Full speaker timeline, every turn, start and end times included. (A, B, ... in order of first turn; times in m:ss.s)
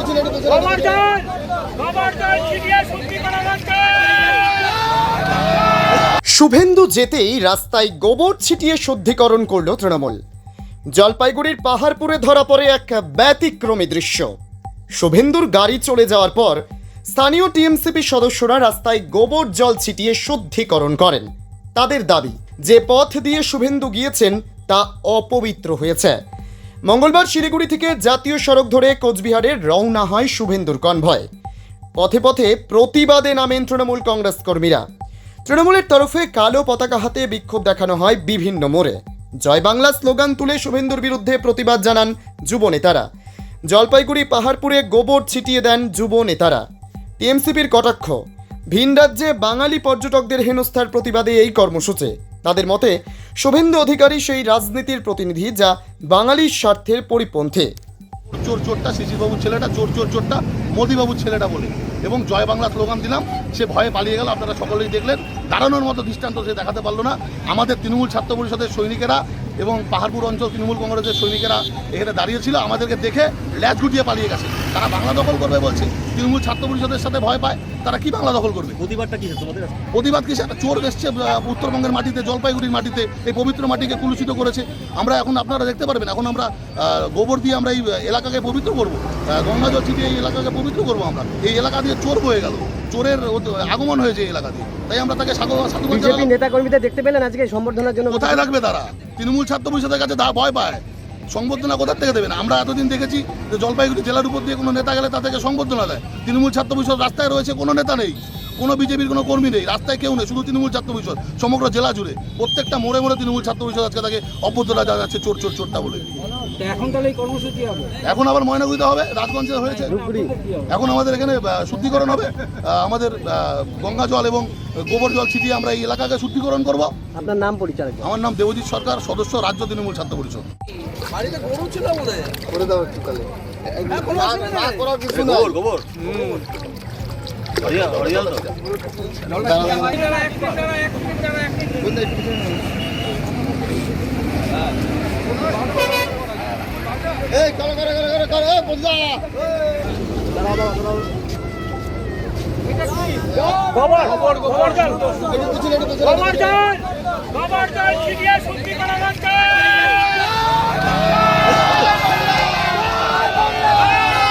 0:00.4-0:04.3 A
0:06.3-0:10.2 B
0:10.9-0:14.3 B
0:15.0-0:26.2 B
0:26.9-0:31.3 B
0:32.0-0:34.8 B
0:35.4-0:43.0 B
0:43.7-0:46.6 B
0:47.2-0:57.7 B
0:58.3-1:18.8 C
1:18.8-1:19.8 D
1:19.9-1:36.3 C
1:35.9-1:38.4 E
1:38.1-1:56.2 C
1:56.7-1:57.8 A
1:58.0-2:00.0 C
1:59.9-2:00.3 E
2:00.7-2:06.9 C
2:07.1-2:08.1 E
2:08.0-2:10.5 C
2:13.9-2:16.4 D
2:17.6-2:18.5 D
2:19.4-2:20.0 D
2:27.4-2:29.1 D
2:33.8-2:35.1 A
2:36.0-2:36.8 A
2:37.4-2:39.5 A